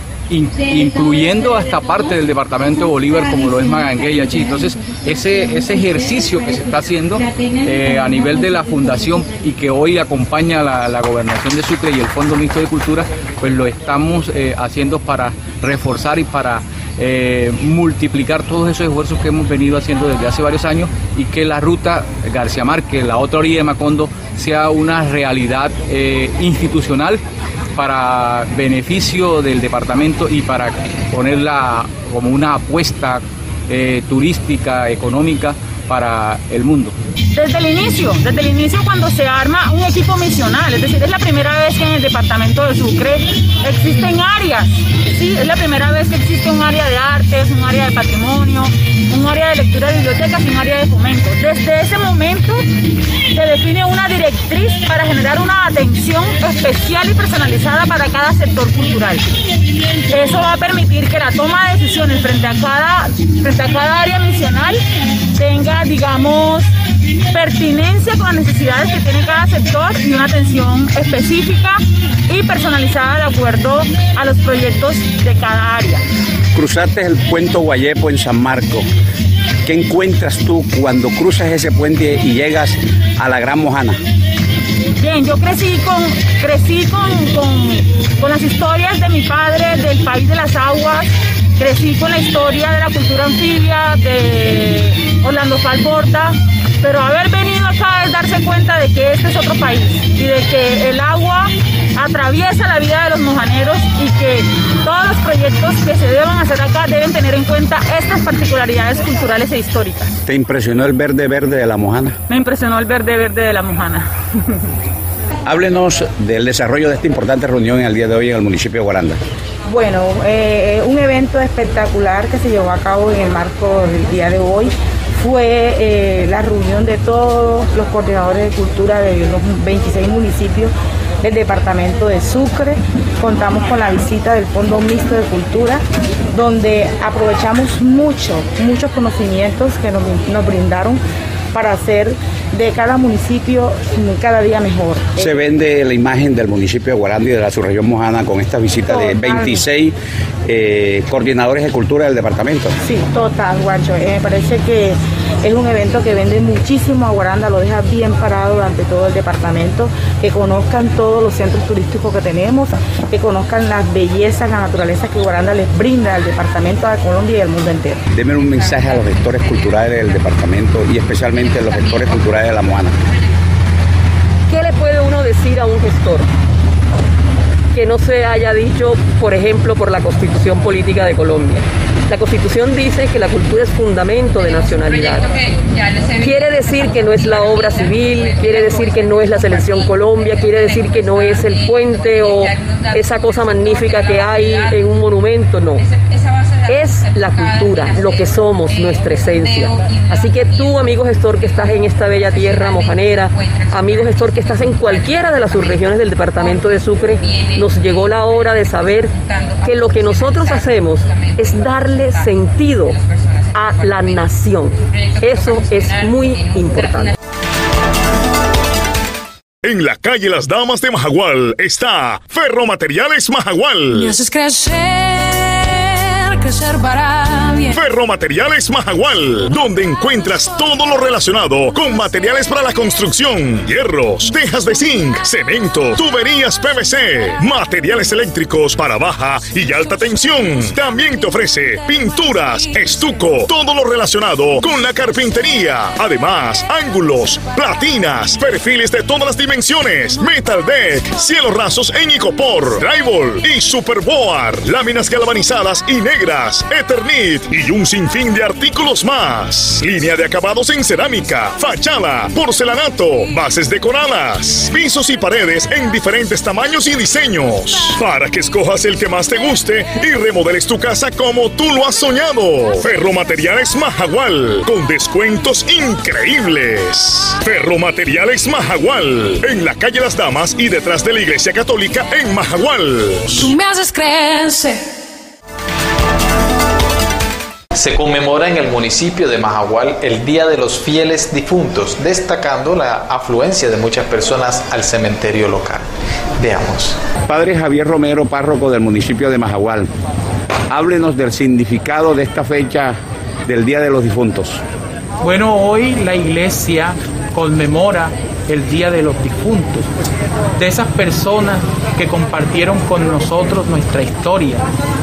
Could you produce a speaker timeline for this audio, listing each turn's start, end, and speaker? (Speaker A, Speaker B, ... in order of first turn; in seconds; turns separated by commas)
Speaker A: 0.3-27.2, Speaker A: 27.8-37.0, Speaker B: 37.3-52.6, Speaker B: 53.3-59.3, Speaker B: 60.1-64.8, Speaker B: 65.4-66.7, Speaker B: 67.3-76.0, Speaker C: 76.5-78.9, Speaker C: 79.7-84.0, Speaker B: 85.0-110.1, Speaker C: 110.3-112.2, Speaker B: 112.3-114.1, Speaker C: 115.5-119.2, Speaker D: 119.7-141.0, Speaker D: 141.5-145.4, Speaker C: 145.2-149.9, Speaker D: 148.9-149.6, Speaker C: 150.4-152.8, Speaker D: 152.8-168.0, Speaker C: 168.1-173.0, Speaker E: 174.5-176.3, Speaker E: 177.7-185.3, Speaker E: 186.2-195.8, Speaker E: 196.7-213.0, Speaker E: 213.5-217.1, Speaker F: 219.6-224.2, Speaker G: 223.9-227.7, Speaker F: 227.7-283.5, Speaker G: 283.4-284.8, Speaker H: 287.7-295.9, Speaker H: 296.4-297.0, Speaker C: 297.3-299.9, Speaker C: 300.7-304.6, Speaker I: 305.2-309.9, Speaker I: 310.6-314.7